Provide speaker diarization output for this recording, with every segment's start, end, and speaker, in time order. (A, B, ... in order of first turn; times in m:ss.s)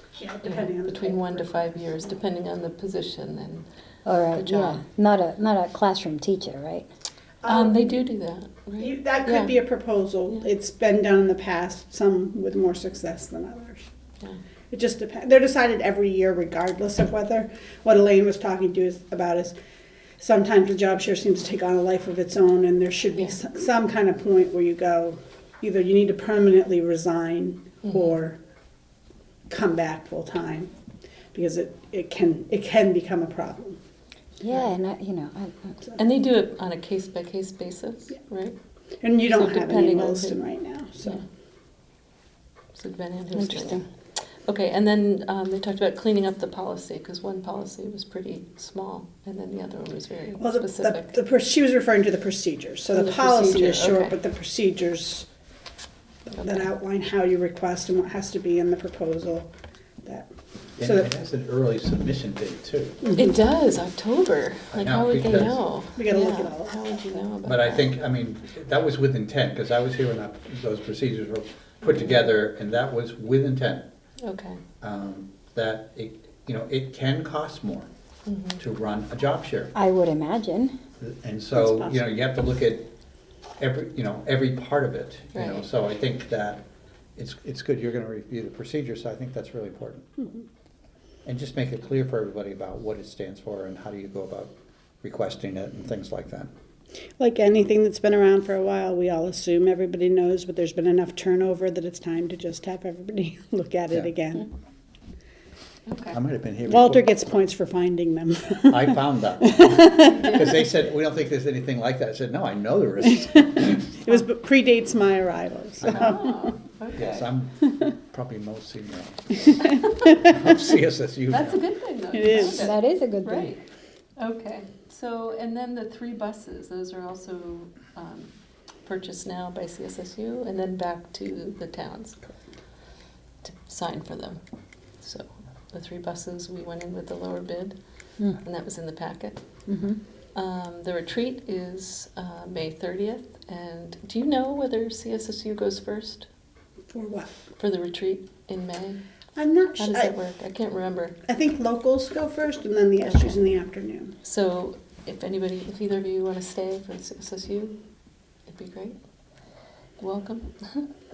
0:00.1-0:01.9 A
0:00.4-0:03.6 B
0:04.0-0:06.9 C
0:04.4-0:04.8 B
0:07.4-0:08.0 A
0:07.4-0:09.6 B
0:08.8-0:13.9 A
0:14.7-0:19.5 A
0:20.2-0:28.4 A
0:29.5-0:30.7 A
0:31.3-0:33.8 A
0:34.4-0:35.8 C
0:36.0-0:38.6 B
0:39.0-0:41.2 A
0:39.3-0:40.4 B
0:42.7-0:43.8 B
0:43.4-0:43.8 C
0:44.4-0:51.1 B
0:50.4-0:55.3 A
0:52.9-0:54.1 B
0:56.2-0:59.5 A
0:56.4-0:56.6 B
1:00.0-1:00.3 A
1:00.8-1:03.2 D
1:00.8-1:01.1 A
1:03.0-1:03.3 A
1:03.2-1:07.9 B
1:04.7-1:05.7 D
1:05.9-1:07.2 A
1:07.4-1:13.8 D
1:14.2-1:14.6 B
1:14.8-1:17.9 D
1:18.3-1:18.6 B
1:18.6-1:19.7 D
1:19.7-1:20.7 C
1:21.0-1:22.9 D
1:21.5-1:22.1 A
1:23.6-1:26.6 D
1:25.3-1:25.7 B
1:27.2-1:30.1 D
1:31.2-1:36.5 D
1:37.2-1:44.5 A
1:45.9-1:46.2 B
1:46.1-1:47.0 D
1:46.7-1:50.4 A
1:48.7-1:53.9 D
1:50.0-1:50.5 B
1:54.0-1:56.5 A
1:55.8-1:56.1 D
1:55.9-1:57.3 B
1:56.9-2:01.6 D
2:01.3-2:03.6 B
2:02.1-2:02.7 A
2:02.5-2:03.5 C
2:04.2-2:08.3 B
2:08.8-2:12.2 B
2:13.4-2:14.4 B
2:15.0-2:17.8 B
2:18.4-2:19.4 B
2:19.7-2:20.0 C
2:20.3-2:26.3 B
2:26.9-2:27.3 A
2:27.6-2:29.0 B
2:29.4-2:30.1 A
2:29.8-2:31.2 B
2:31.3-2:34.1 A
2:33.0-2:33.4 B
2:34.2-2:37.8 B
2:38.5-2:39.0 B
2:40.0-2:40.5 B